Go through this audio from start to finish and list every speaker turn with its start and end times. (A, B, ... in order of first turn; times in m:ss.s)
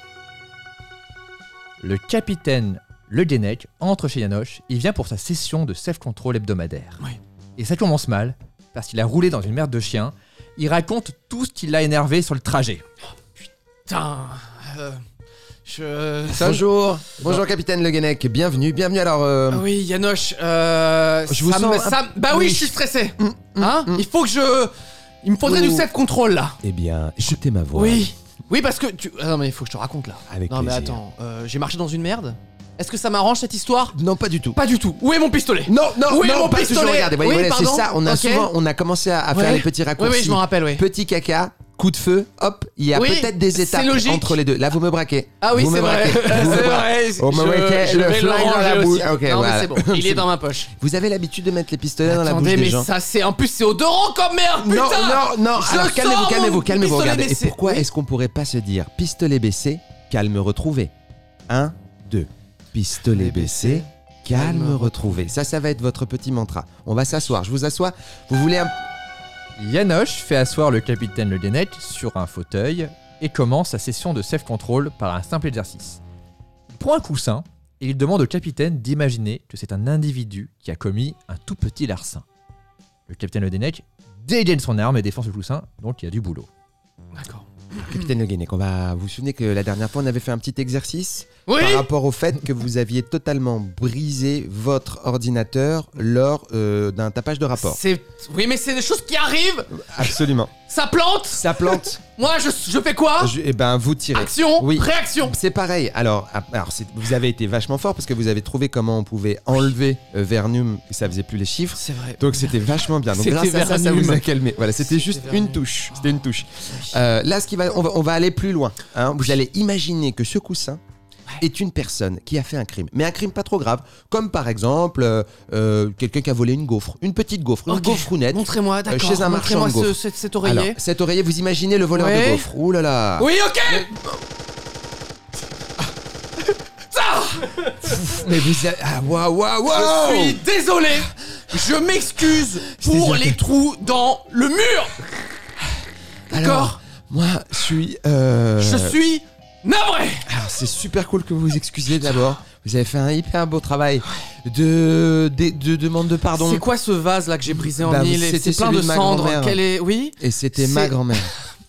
0:01.8-0:07.0 A
0:07.6-0:12.8 A
0:13.9-0:15.0 B
0:15.6-0:16.6 B
0:16.3-0:19.6 C
0:19.5-0:26.6 B
0:21.3-0:24.0 C
0:25.4-0:25.9 C
0:26.6-0:28.1 C
0:27.7-0:34.0 B
0:30.3-0:31.0 C
0:33.9-0:34.6 C
0:34.5-0:38.5 B
0:35.6-0:52.9 C
0:39.3-0:40.8 B
0:42.9-0:44.4 B
0:45.4-0:50.7 B
0:52.0-0:57.8 B
0:54.6-1:00.9 C
1:01.5-1:08.8 C
1:03.1-1:05.3 B
1:09.6-1:16.0 A
1:16.7-1:22.2 A
1:23.1-1:26.5 A
1:27.1-1:27.9 B
1:27.8-1:37.8 C
1:31.5-1:31.9 B
1:37.6-1:40.1 B
1:39.7-1:40.5 C
1:40.7-1:43.3 B
1:41.3-1:42.0 C
1:43.2-2:00.8 C
1:44.1-1:45.4 B
1:51.7-1:52.5 B
1:53.1-1:54.2 B
1:54.8-1:56.2 B
2:01.4-2:14.2 C
2:07.7-2:10.8 B
2:11.9-2:12.5 B
2:13.2-2:13.9 B
2:16.9-2:18.0 B
2:17.8-2:20.4 C
2:19.7-2:25.0 B
2:22.3-2:23.4 C
2:26.3-2:29.0 C
2:26.3-2:26.8 B
2:28.6-2:30.3 B
2:30.2-2:36.6 C
2:36.3-2:41.3 B
2:37.5-2:39.6 C
2:40.2-2:41.3 C